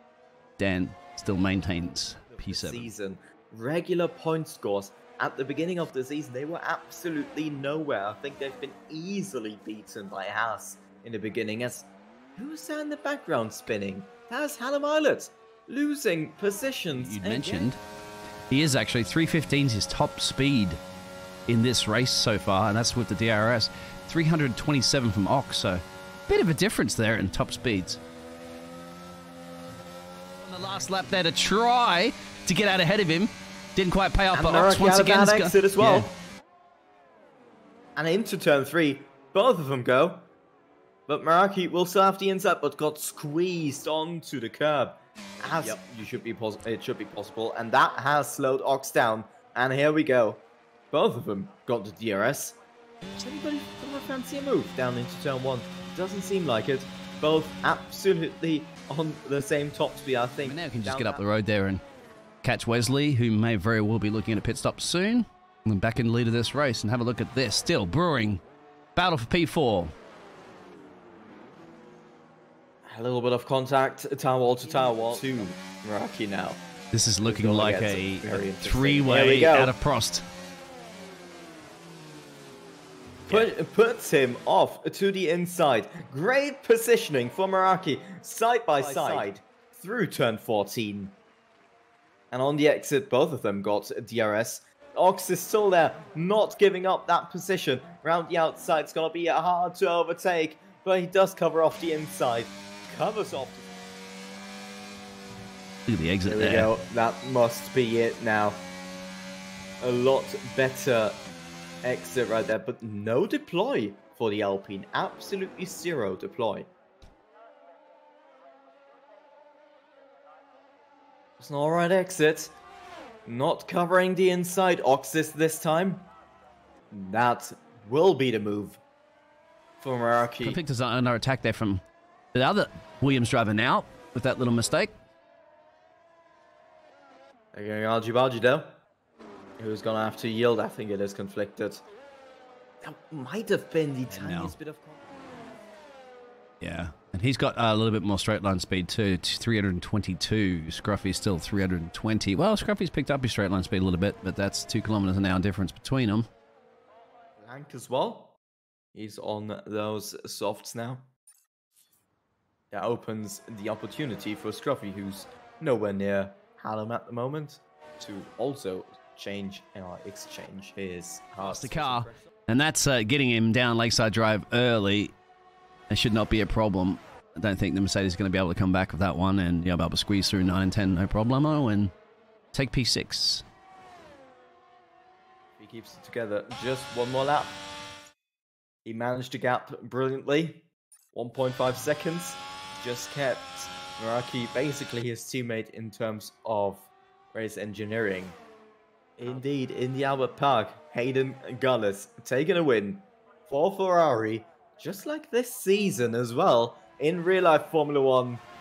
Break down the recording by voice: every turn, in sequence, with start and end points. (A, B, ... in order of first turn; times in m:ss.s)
0:00.6-0:02.9 A
0:02.3-0:17.7 B
0:16.9-0:17.8 A
0:18.5-0:20.8 A
0:21.5-0:28.0 A
0:30.4-0:36.1 A
0:34.3-0:36.1 B
0:38.0-0:40.2 B
0:41.1-0:52.6 B
0:53.1-1:01.3 B
1:00.4-1:01.8 A
1:02.4-1:08.4 A
1:09.0-1:09.9 A
1:12.8-1:16.6 B
1:14.6-1:15.5 A
1:16.9-1:20.2 A
1:17.2-1:19.8 B
1:23.3-1:31.2 B
1:28.8-1:29.3 A
1:32.3-1:43.7 B
1:45.9-1:46.7 A
1:46.2-1:48.6 B
1:49.8-1:51.2 B
1:51.8-1:56.7 B
2:01.4-2:02.5 B
2:03.3-2:06.1 B
2:06.9-2:08.8 B
2:09.8-2:10.6 B
2:10.4-2:11.8 A
2:12.3-2:14.9 A
2:17.5-2:18.8 B
2:19.6-2:21.8 B
2:22.8-2:25.0 B
2:24.1-2:24.6 A
2:26.6-2:36.3 A
2:37.4-2:38.4 B
2:38.9-2:41.1 B
2:42.7-2:52.3 B
2:51.4-2:55.1 A
2:55.9-3:01.9 A
3:02.5-3:03.4 A
3:05.6-3:07.6 B
3:08.8-3:18.4 B
3:19.2-3:28.4 B